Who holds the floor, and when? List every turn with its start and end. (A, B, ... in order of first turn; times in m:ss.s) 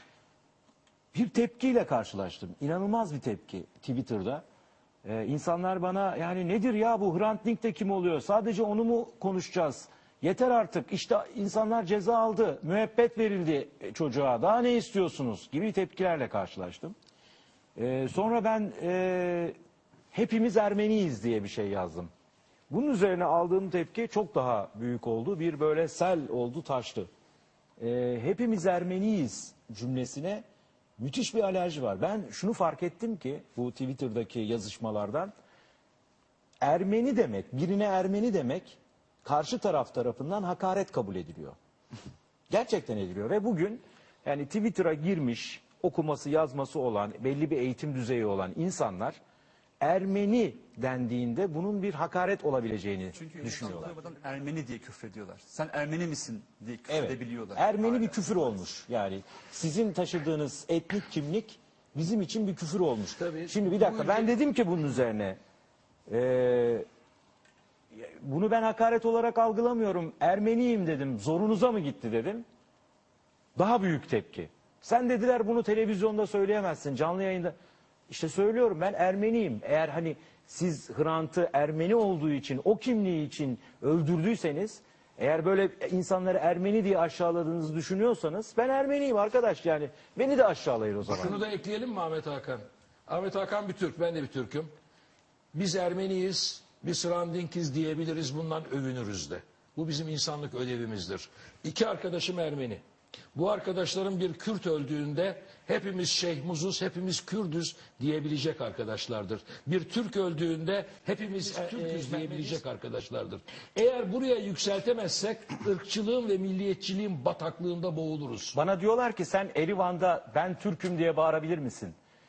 0:01.1-0:04.4 A
0:05.0-0:16.9 A
0:17.8-0:19.6 A
0:20.1-0:22.1 A
0:22.7-0:27.1 A
0:27.8-0:30.4 A
0:31.0-0:35.3 A
0:36.6-0:41.6 A
0:42.5-0:49.2 A
0:49.8-0:53.9 A
0:53.2-0:58.4 B
0:56.9-1:05.4 A
1:03.2-1:04.3 C
1:06.1-1:06.8 A
1:07.9-1:12.4 A
1:13.6-1:17.5 A
1:18.1-1:31.4 A
1:31.0-1:34.7 C
1:35.5-1:42.8 C
1:43.3-1:58.6 C
1:51.4-1:52.6 A
1:58.5-2:02.0 A